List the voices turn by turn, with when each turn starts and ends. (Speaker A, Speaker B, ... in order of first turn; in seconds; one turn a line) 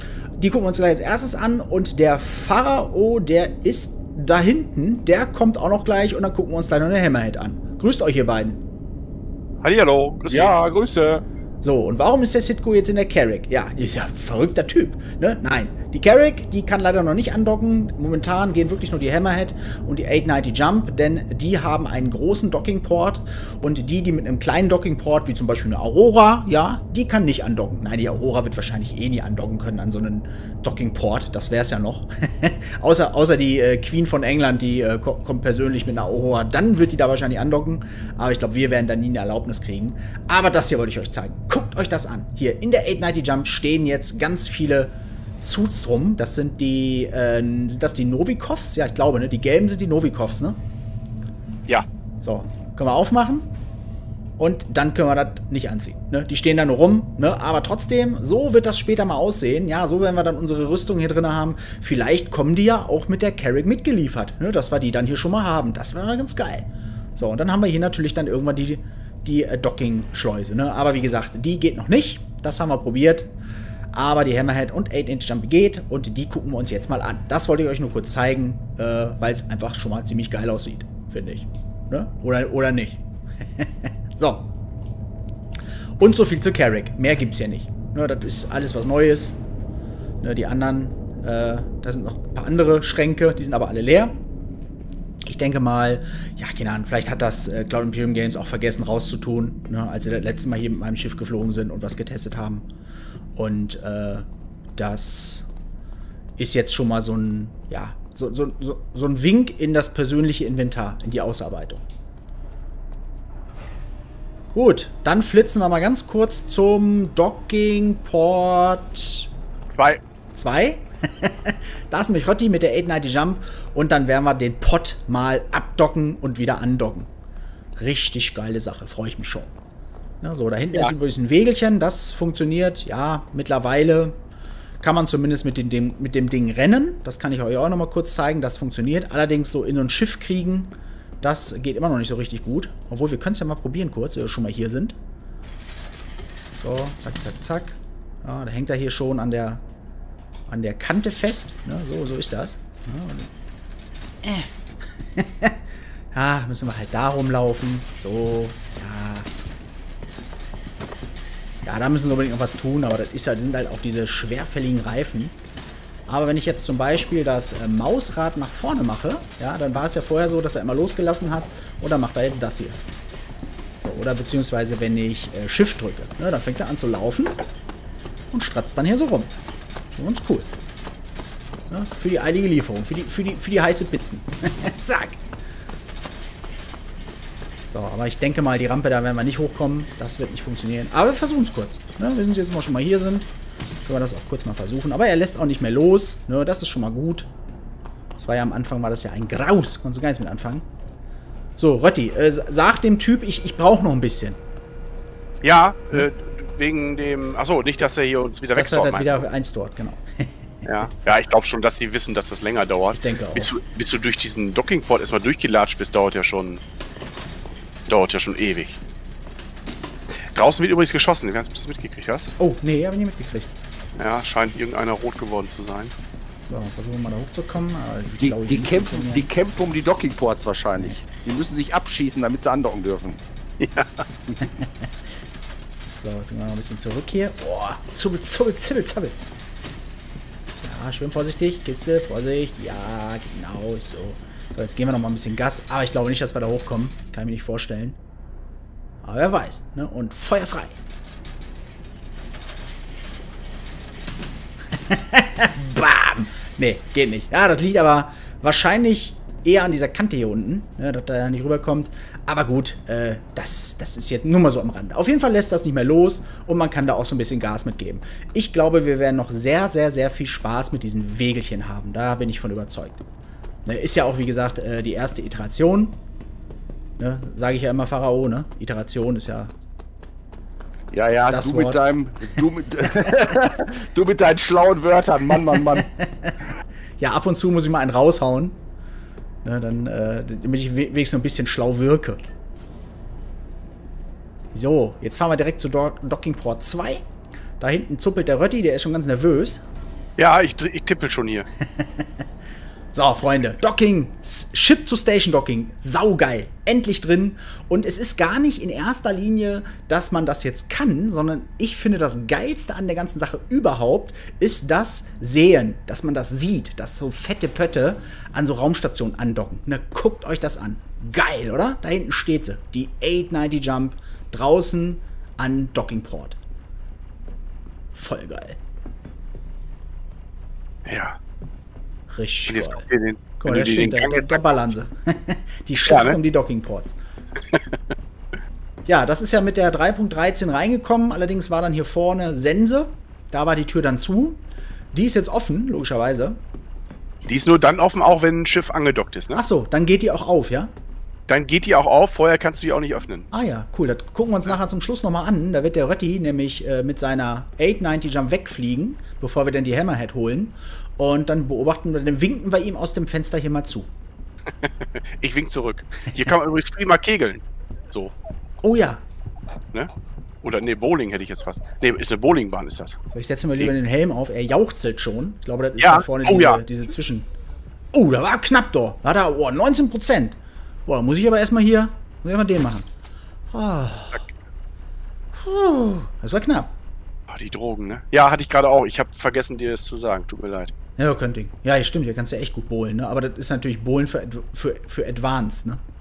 Speaker A: 0.4-8.6
Speaker B: 9.6-10.6
Speaker C: 10.3-11.2
Speaker A: 11.6-50.6
Speaker A: 52.2-53.5
Speaker A: 54.4-73.3
Speaker A: 73.9-83.0
Speaker A: 83.6-84.5
Speaker A: 86.0-89.4
Speaker A: 90.2-94.2
Speaker A: 95.2-102.7
Speaker A: 103.4-104.3
Speaker A: 104.8-105.5
Speaker A: 106.4-111.8
Speaker A: 114.5-119.3
Speaker B: 119.7-120.0
Speaker A: 120.3-127.1
Speaker A: 127.8-129.5
Speaker A: 130.2-134.2
Speaker A: 134.8-145.0
Speaker A: 146.6-149.6
Speaker A: 150.5-153.3
Speaker A: 154.2-155.6
Speaker A: 156.1-159.3
Speaker A: 161.7-165.4
Speaker A: 166.1-172.8
Speaker A: 173.8-177.4
Speaker A: 178.3-179.3
Speaker A: 179.9-180.5
Speaker A: 181.7-185.2
Speaker A: 187.7-193.3
Speaker A: 193.8-197.3
Speaker A: 198.2-200.7
Speaker A: 201.6-204.4
Speaker B: 205.4-209.2
Speaker A: 208.6-211.1
Speaker B: 210.7-216.6
Speaker A: 212.9-213.5
Speaker B: 217.9-218.8
Speaker B: 220.3-222.3
Speaker A: 222.4-223.5
Speaker B: 224.0-225.9
Speaker A: 226.4-229.3
Speaker C: 228.2-233.2
Speaker B: 233.6-234.1
Speaker A: 235.9-239.2
Speaker A: 240.6-248.0
Speaker A: 249.0-250.8
Speaker A: 254.8-273.0
Speaker A: 273.7-276.0
Speaker A: 277.0-279.5
Speaker C: 280.9-285.9
Speaker A: 281.3-281.8
Speaker A: 285.7-288.6
Speaker A: 289.4-292.2
Speaker A: 294.5-297.0
Speaker A: 297.6-299.6
Speaker B: 300.2-301.5
Speaker A: 301.7-302.1
Speaker A: 302.9-326.4
Speaker A: 327.9-328.6
Speaker B: 330.9-331.2
Speaker A: 332.1-332.9
Speaker B: 332.5-334.5
Speaker A: 333.4-337.0
Speaker B: 335.9-336.2
Speaker A: 338.9-344.4
Speaker A: 344.9-346.4
Speaker B: 347.2-349.4
Speaker A: 349.3-350.7
Speaker B: 351.3-353.3
Speaker A: 353.3-363.9
Speaker B: 365.2-368.1
Speaker A: 368.6-369.0
Speaker B: 370.4-373.0
Speaker A: 373.1-377.3
Speaker B: 375.8-376.6
Speaker A: 377.9-382.9
Speaker A: 383.5-384.2
Speaker A: 385.4-386.7
Speaker B: 387.3-390.7
Speaker A: 391.0-395.8